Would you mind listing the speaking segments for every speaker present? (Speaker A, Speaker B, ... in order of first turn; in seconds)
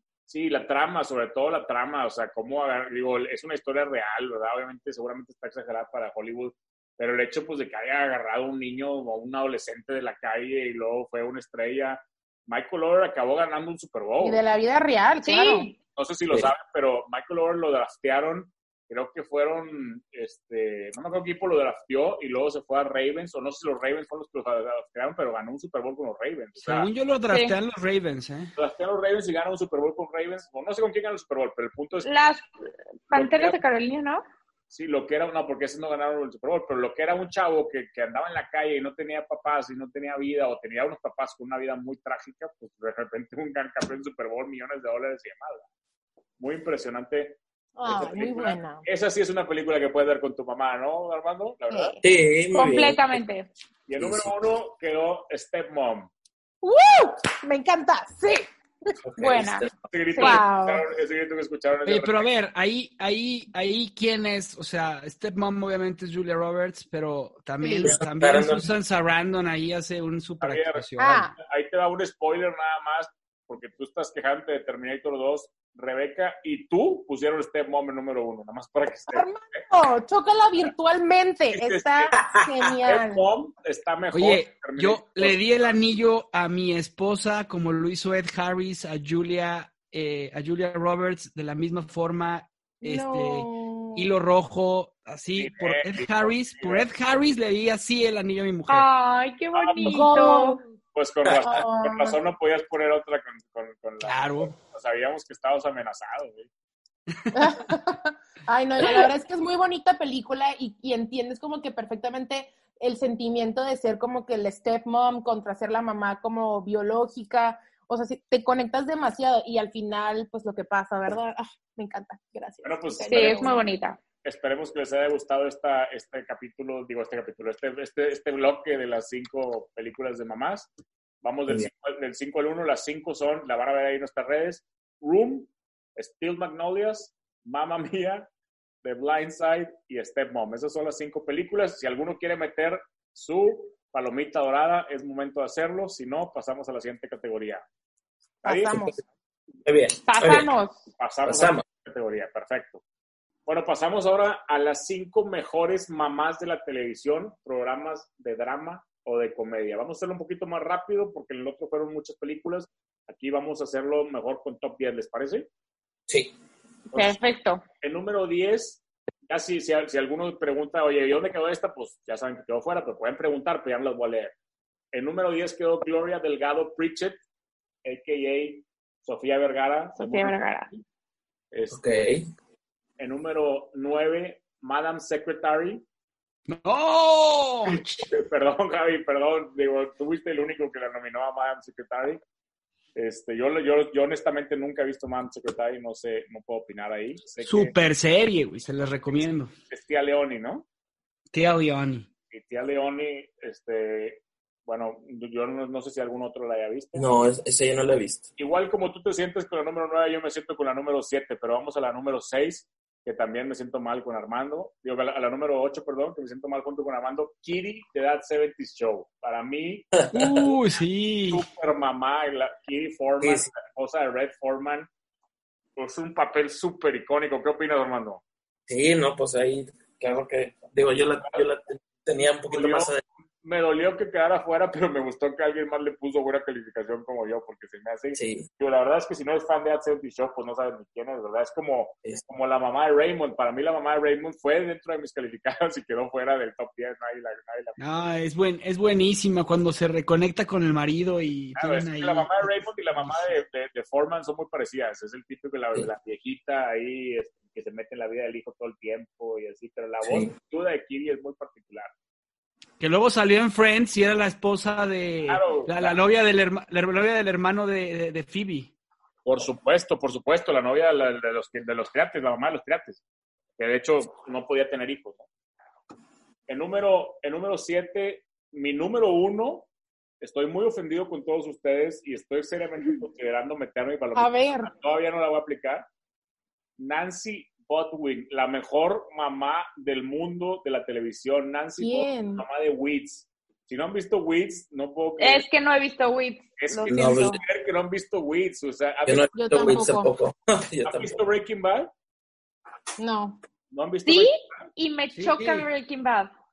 Speaker A: 0.3-14.4, 16.0-26.9, 28.6-32.1, 33.1-33.6, 34.7-45.6, 46.4-52.0, 53.9-56.1, 59.9-62.3, 70.4-79.6, 81.5-82.2, 82.8-85.8, 95.3-96.9, 99.5-100.1, 100.9-106.5, 122.6-123.5, 124.2-130.7, 131.2-138.3, 138.8-147.6, 148.4-149.0, 151.0-152.8, 153.5-165.5, 167.8-174.3, 174.9-177.2, 177.8-180.8, 181.5-182.1, 183.0-185.8, 188.1-192.2, 192.9-197.7, 199.1-200.7, 202.3-207.1, 208.4-219.9, 221.3-224.9, 225.8-228.2, 232.5-232.9, 233.4-247.8, 251.6-261.9, 265.3-266.0, 269.3-273.0, 273.6-275.2, 276.5-279.7, 280.2-285.9, 286.8-295.5, 296.6-299.7, 300.9-301.9, 303.7-304.7
Speaker B: 14.2-15.7, 47.8-48.9, 51.7-52.0, 56.6-58.9, 60.2-60.8, 67.6-68.0, 71.0-71.3, 79.1-83.2, 92.8-94.1, 99.8-100.7, 101.3-102.2, 107.3-123.7, 148.4-149.0, 284.1-284.7, 291.8-292.4, 299.3-300.1, 303.0-303.4
Speaker C: 15.2-15.8, 27.3-27.6, 32.0-32.5, 33.1-34.2, 52.5-53.5, 59.2-60.4, 98.7-100.6, 123.1-124.0, 150.1-150.8, 166.9-167.6, 180.0-180.7, 295.2-297.4, 304.1-306.3
Speaker D: 26.6-28.5, 61.9-71.3, 84.1-98.9, 104.0-104.5, 107.1-107.5, 186.5-188.1, 197.4-199.5, 201.3-202.1, 220.1-221.5, 247.8-253.3, 262.8-268.7, 305.1-305.7
Speaker E: 52.0-53.2, 54.0-54.3, 59.0-59.7, 67.8-68.7, 149.7-150.5, 151.3-151.6, 166.1-166.3, 181.7-182.2, 206.9-208.3, 220.0-220.4, 223.2-223.5, 228.7-233.0, 238.2-238.5, 260.0-260.3, 296.9-297.4, 299.1-301.2